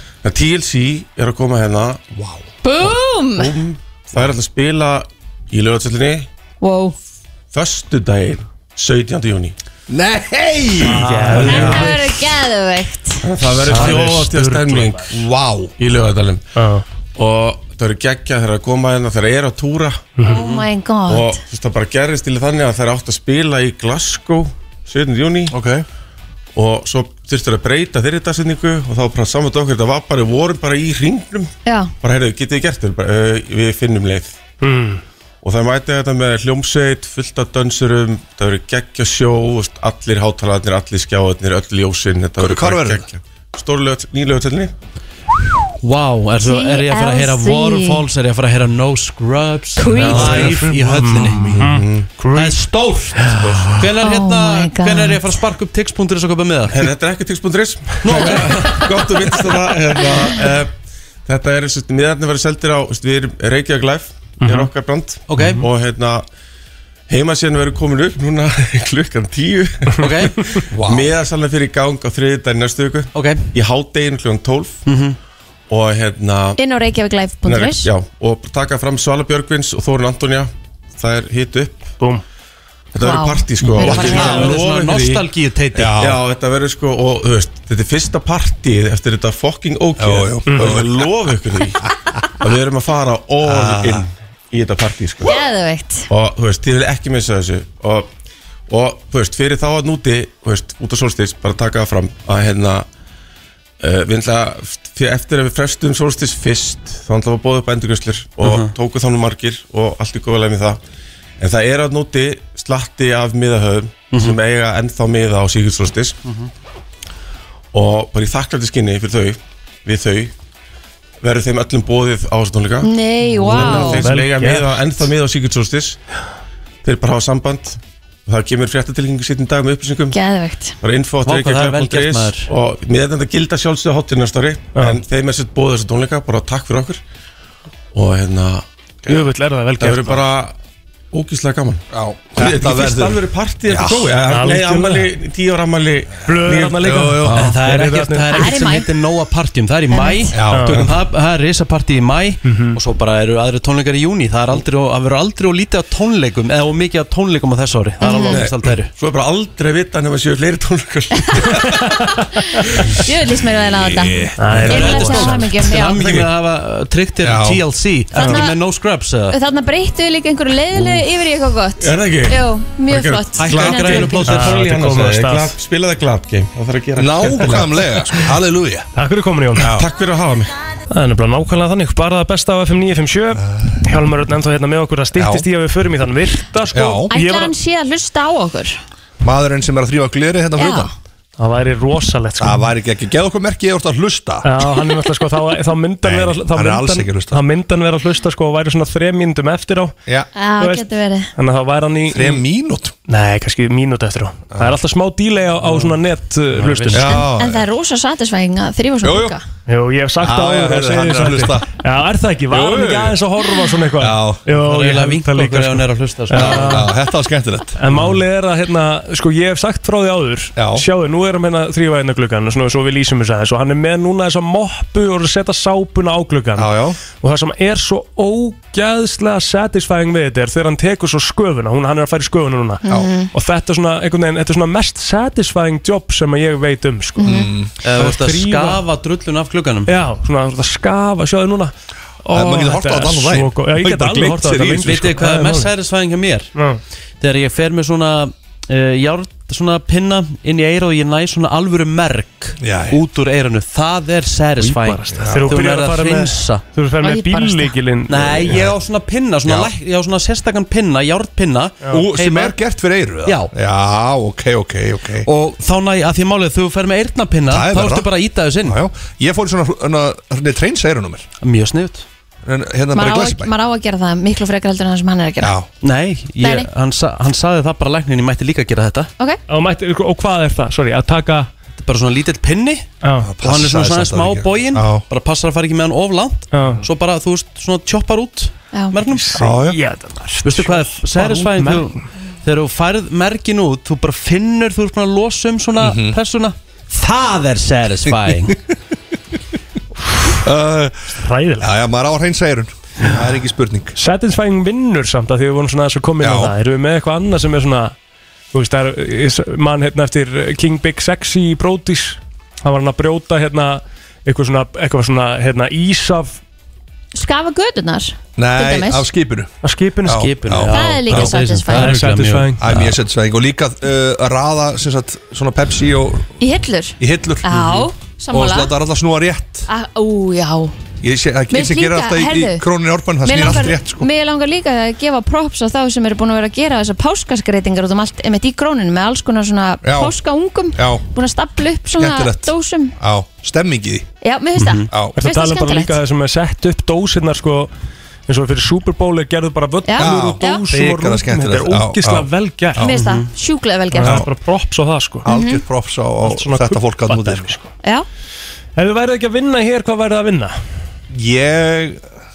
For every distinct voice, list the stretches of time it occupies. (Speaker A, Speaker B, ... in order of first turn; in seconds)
Speaker A: 0.2-2.0, 2.7-6.3, 7.5-9.6, 11.5-11.8, 13.2-15.2, 15.8-16.4, 17.2-20.1, 21.1-25.5, 26.6-31.5, 32.0-34.4, 35.4-44.7, 50.0-50.6, 51.6-52.1, 56.7-60.7, 61.3-66.2, 67.1-70.2, 70.9-74.8, 75.7-76.6, 77.5-81.9, 82.9-85.3, 86.0-91.8, 92.4-95.4, 96.1-98.1, 98.7-102.9, 103.8-110.8, 111.4-116.2, 117.7-120.3, 121.2-126.0, 126.8-130.2, 130.8-137.0, 137.9-138.7, 139.8-140.6, 141.1-141.8, 142.3-147.5, 159.0-162.0, 166.0-166.2, 171.8-177.7, 179.7-180.6
Speaker B: 2.1-2.4, 9.9-11.6, 13.8-14.0, 15.1-15.7, 25.5-25.9, 42.4-43.1, 50.1-51.9, 53.4-53.8, 70.7-71.1, 83.9-84.5, 85.8-86.2, 90.0-91.0, 93.4-94.1, 141.9-144.2, 146.8-147.5, 150.3-150.9, 158.2-158.7, 163.7-165.3, 167.2-167.6, 177.0-178.9, 179.6-179.9, 183.4-183.8, 185.2-185.5, 186.7-187.1, 189.2-190.9, 192.4-194.7, 196.0-197.4, 202.1-202.9, 204.5-204.8, 206.9-207.6, 209.0-209.4, 210.2-211.7, 212.5-213.2, 213.9-214.4, 216.3-217.8, 220.6-220.9, 226.6-227.0, 237.2-237.7, 242.3-245.1, 252.6-253.0, 255.1-255.6, 258.4-258.8, 259.4-259.7, 261.9-265.3, 267.5-268.1, 268.6-271.2, 272.5-273.5, 275.4-275.7, 283.2-285.1, 289.4-289.8, 295.8-296.2, 300.4-303.9, 306.2-306.5, 318.4-319.5, 320.1-321.4, 322.6-326.3, 327.0-329.7, 331.0-334.1, 339.8-340.2, 340.8-341.1, 342.0-344.1, 350.0-353.0, 354.0-354.3, 355.2-357.6, 361.1-362.0
Speaker C: 2.6-3.6, 6.6-7.0, 11.4-13.3, 20.2-21.4, 31.6-31.9, 46.4-48.0, 49.8-50.3, 54.0-55.4, 76.6-77.9, 83.0-84.3, 95.2-96.1, 122.8-124.1, 130.1-130.8, 148.3-148.9, 149.9-150.3, 158.0-158.4, 161.2-161.5, 163.0-166.2, 168.1-168.6, 169.3-174.5, 187.1-188.8, 190.6-190.9, 200.3-201.3, 207.1-209.4, 232.9-233.3, 237.2-237.5, 257.0-257.8, 272.9-275.5, 276.4-276.7, 317.1-319.1, 320.7-322.0, 326.4-328.7, 329.7-330.8, 331.5-332.6, 333.2-342.9, 344.2-346.0, 349.9-350.6, 352.8-354.2, 355.3-355.6
Speaker D: 10.8-12.0, 13.6-15.1, 16.6-16.8, 34.6-35.0, 50.1-52.6, 53.2-53.8, 64.4-64.7, 90.5-90.8, 123.4-125.1, 134.8-135.0, 139.1-140.2, 144.2-145.1, 146.2-148.6, 150.5-150.9, 152.4-152.8, 161.6-162.2, 164.4-165.4, 168.2-168.5, 174.0-175.6, 177.2-178.3, 179.0-179.8, 180.9-187.5, 191.4-192.7, 194.4-199.9, 200.6-200.8, 201.4-202.4, 203.1-207.2, 209.7-216.9, 217.8-237.3, 237.9-238.8, 239.9-241.7, 242.2-245.7, 246.6-246.8, 254.6-258.6, 279.5-281.5, 283.0-283.3, 286.5-286.8, 289.3-292.0, 301.1-301.7, 304.0-307.9, 308.5-316.4, 319.6-320.3, 321.7-322.6, 345.2-347.7, 348.3-352.8, 353.9-355.3, 356.2-357.7, 358.8-360.6
Speaker E: 10.8-11.9, 13.7-14.1, 20.3-20.7, 45.8-51.6, 52.3-56.8, 58.0-58.6, 65.3-65.6, 70.0-70.4, 73.1-73.5, 74.9-75.2, 83.7-86.0, 108.4-108.7, 114.1-114.4, 131.3-132.5, 147.3-158.9, 164.5-169.4, 170.7-171.0, 173.4-174.6, 205.6-206.0, 206.5-207.2, 214.5-216.9, 237.8-239.9, 244.8-246.5, 247.2-256.6, 258.1-262.6, 263.2-263.5, 265.2-268.8, 271.4-272.1, 275.8-279.1, 281.8-289.5, 290.4-298.6, 320.1-322.9, 344.6-344.9, 352.9-353.3